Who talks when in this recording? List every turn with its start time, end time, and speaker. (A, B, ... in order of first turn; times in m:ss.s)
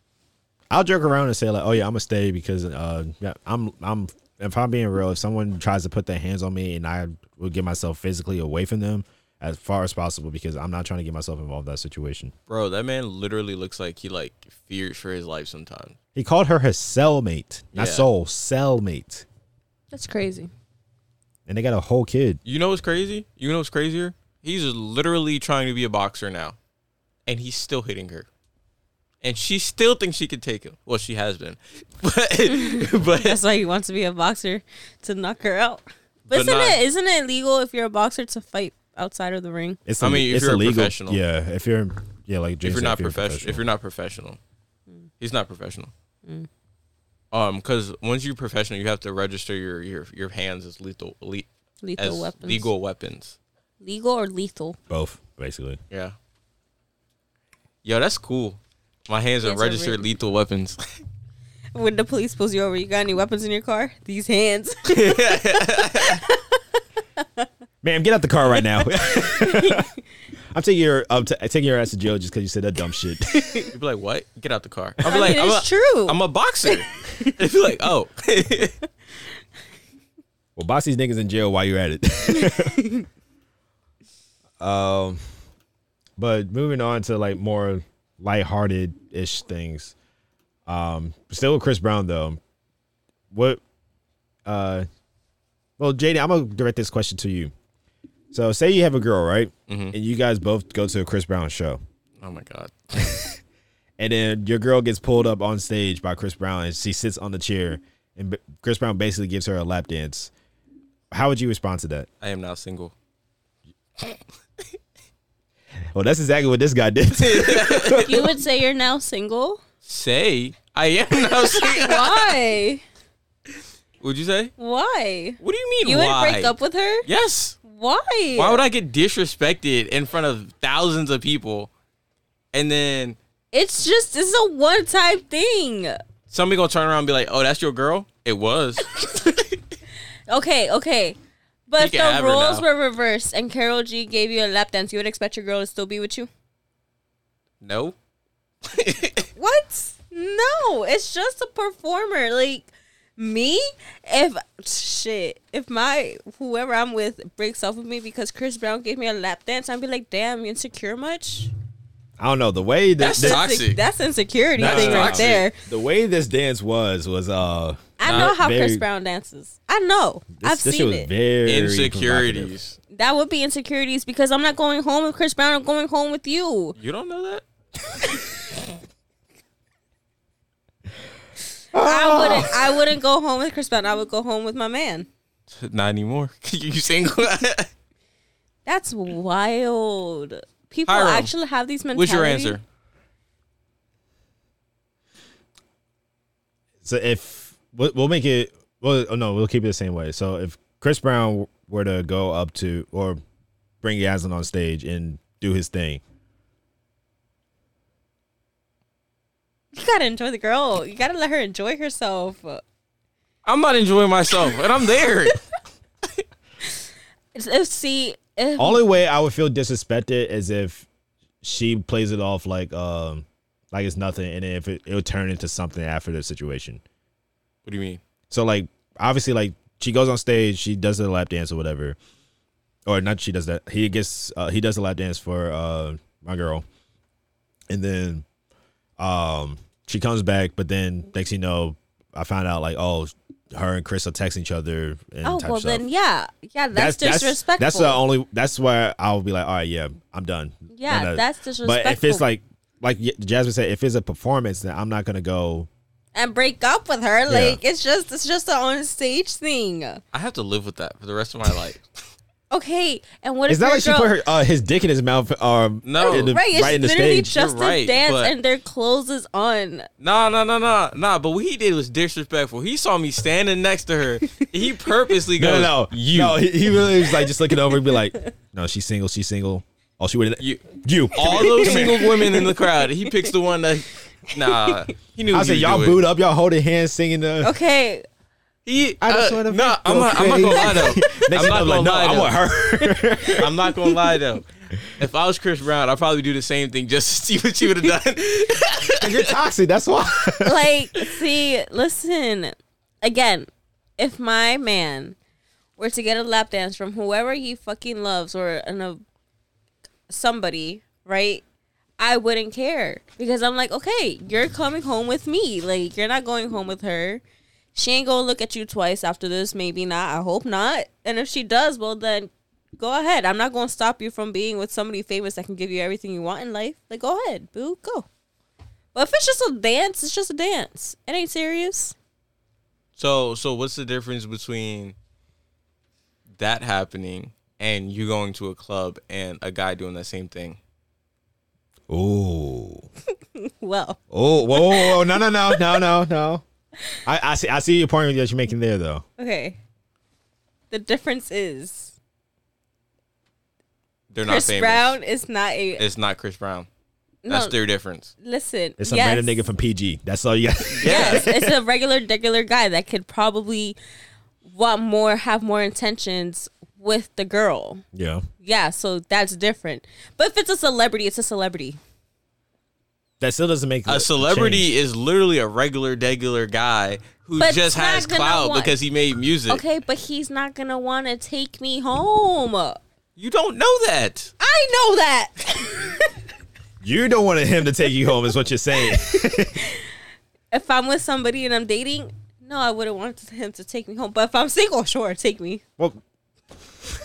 0:00.7-0:12.3 A
0:12.5-0:16.0 B
0:16.2-0:19.3 A
0:17.8-0:18.1 B
0:19.9-0:20.5 C
0:21.5-0:22.4 A
0:22.5-0:26.6 B
0:27.3-0:28.3 B
0:29.2-0:33.4 B
0:32.5-0:39.8 C
0:36.3-0:36.8 B
0:39.9-0:43.6 A
0:40.0-0:41.2 B
0:42.6-0:44.4 B
0:45.2-0:45.9 B
0:47.3-0:51.5 B
0:51.8-0:52.7 C
0:52.0-0:53.4 B
0:53.8-0:54.8 C
0:54.9-0:55.8 A
0:57.8-1:00.8 B
0:59.4-1:00.1 C
1:01.7-1:06.6 C
1:04.9-1:06.2 B
1:07.2-1:07.5 C
1:07.8-1:09.9 A
1:09.0-1:09.9 C
1:10.5-1:13.7 A
1:13.4-1:13.7 C
1:13.7-1:18.7 B
1:15.0-1:17.4 C
1:20.6-1:22.8 A
1:22.3-1:23.1 C
1:24.6-1:25.2 A
1:26.2-1:29.9 A
1:30.7-1:32.4 A
1:33.3-1:33.6 A
1:34.5-1:34.9 A
1:35.8-1:37.5 A
1:38.3-1:41.8 A
1:39.7-1:39.9 B
1:42.2-1:43.2 B
1:44.0-1:50.3 A
1:51.1-1:52.1 A
1:52.2-1:52.9 B
1:55.9-1:58.3 A
1:57.2-1:58.2 B
1:58.0-1:59.6 C
1:59.8-2:02.4 B
2:01.3-2:02.8 C
2:04.0-2:04.5 B
2:04.6-2:07.1 C
2:05.4-2:06.5 B
2:07.0-2:07.6 B
2:07.6-2:08.6 C
2:08.4-2:11.7 B
2:12.5-2:13.2 B
2:13.5-2:16.0 C
2:16.3-2:19.5 B
2:20.3-2:21.2 C
2:21.7-2:26.3 C
2:21.8-2:22.6 B
2:27.6-2:28.0 B
2:28.6-2:29.3 B
2:29.4-2:41.5 C
2:42.2-2:43.4 A
2:43.0-2:43.8 B
2:43.0-2:45.6 C
2:44.6-2:48.8 A
2:44.6-2:45.5 B
2:48.0-2:51.1 C
2:48.1-2:48.3 B
2:50.4-2:52.5 A
2:51.4-2:52.8 B
2:52.9-2:56.8 C
2:56.8-2:57.4 B
3:01.7-3:02.8 A
3:01.8-3:05.1 C
3:05.5-3:07.7 B
3:08.7-3:12.6 C
3:10.9-3:11.3 B
3:11.9-3:12.6 B
3:16.8-3:23.2 A
3:23.8-3:26.0 A
3:29.7-3:32.6 C
3:33.4-3:35.4 B
3:37.4-3:38.8 C
3:38.6-3:40.9 A
3:41.4-3:46.8 A
3:47.6-3:48.0 B
3:48.3-3:52.0 A
3:52.9-3:56.6 A
3:57.7-3:58.2 A
3:59.0-4:05.8 A
4:05.2-4:08.0 C
4:06.7-4:15.7 A
4:10.7-4:12.2 C
4:16.1-4:20.0 C
4:17.3-4:17.6 A
4:20.1-4:21.8 B
4:22.5-4:24.2 C
4:23.5-4:27.4 A
4:25.8-4:26.3 B
4:26.0-4:29.9 C
4:27.3-4:28.3 B
4:30.0-4:36.4 B
4:34.2-4:34.5 C
4:35.4-4:42.1 A
4:37.2-4:38.0 C
4:40.4-4:46.0 B
4:41.2-4:43.3 C
4:44.3-4:44.9 C
4:45.3-4:47.5 A
4:47.4-4:48.1 C
4:48.7-4:52.4 B
4:49.0-4:53.5 A
4:50.6-4:51.3 C
4:53.4-4:54.5 B
4:55.0-4:59.3 B
4:59.0-5:00.7 A
5:00.4-5:05.2 C
5:05.8-5:09.0 C
5:10.1-5:11.4 C
5:12.0-5:17.2 C
5:17.7-5:28.1 C
5:29.0-5:32.0 C
5:33.0-5:35.0 B
5:36.4-5:40.6 B
5:41.9-5:42.9 A
5:43.4-5:44.0 C
5:44.1-5:46.4 A
5:44.5-5:45.8 C
5:47.0-5:49.0 A
5:49.2-5:49.6 C
5:50.7-5:52.0 C
5:54.1-5:55.0 B
5:54.2-5:55.8 C
5:55.8-5:56.7 B
5:57.2-5:57.6 C
5:57.3-5:58.1 B
5:58.2-5:59.4 C
5:58.8-6:01.5 A
6:00.7-6:01.3 B
6:00.9-6:03.8 C
6:04.4-6:07.8 C
6:07.9-6:08.2 A
6:08.4-6:11.8 C
6:13.2-6:14.7 A
6:13.9-6:19.6 B
6:17.4-6:18.7 C
6:19.5-6:22.8 C
6:23.2-6:24.3 B
6:24.4-6:26.1 C
6:26.8-6:29.6 A
6:28.9-6:29.9 C
6:30.5-6:35.6 C